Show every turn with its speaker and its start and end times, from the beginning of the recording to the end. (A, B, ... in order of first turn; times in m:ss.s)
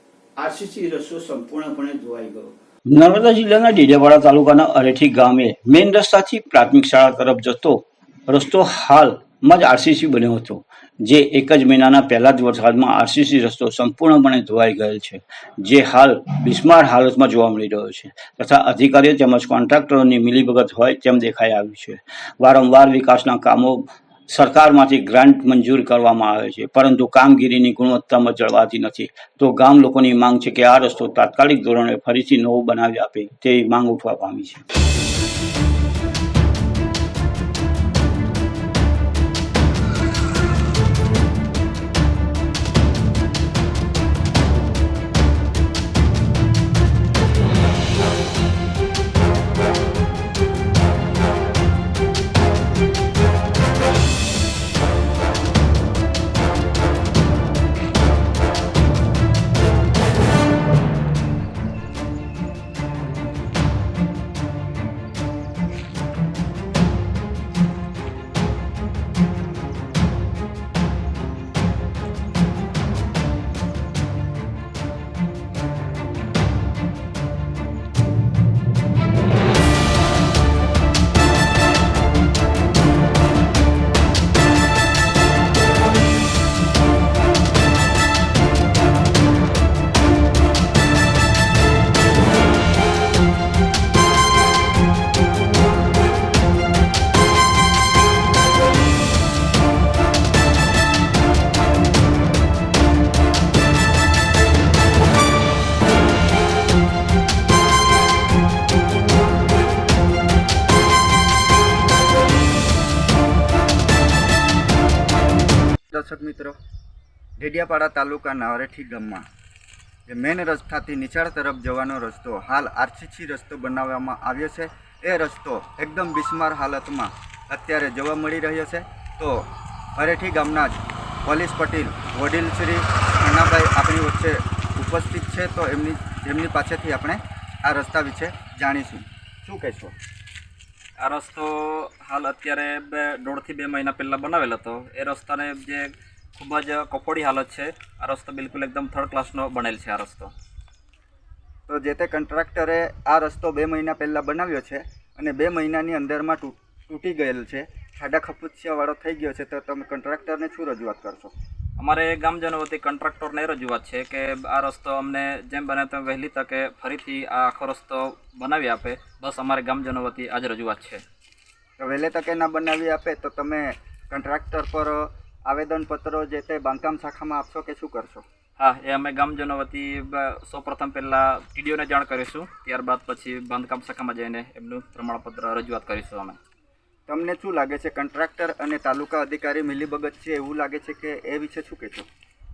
0:00.4-0:34.6 A
1:55.9-1:56.6 B
1:57.4-1:59.2 B
2:00.1-2:19.9 B
2:21.0-2:30.3 C
2:31.7-2:41.3 B
2:41.8-2:51.0 C
2:51.8-2:58.2 B
2:58.6-3:06.4 C
3:07.1-3:12.1 B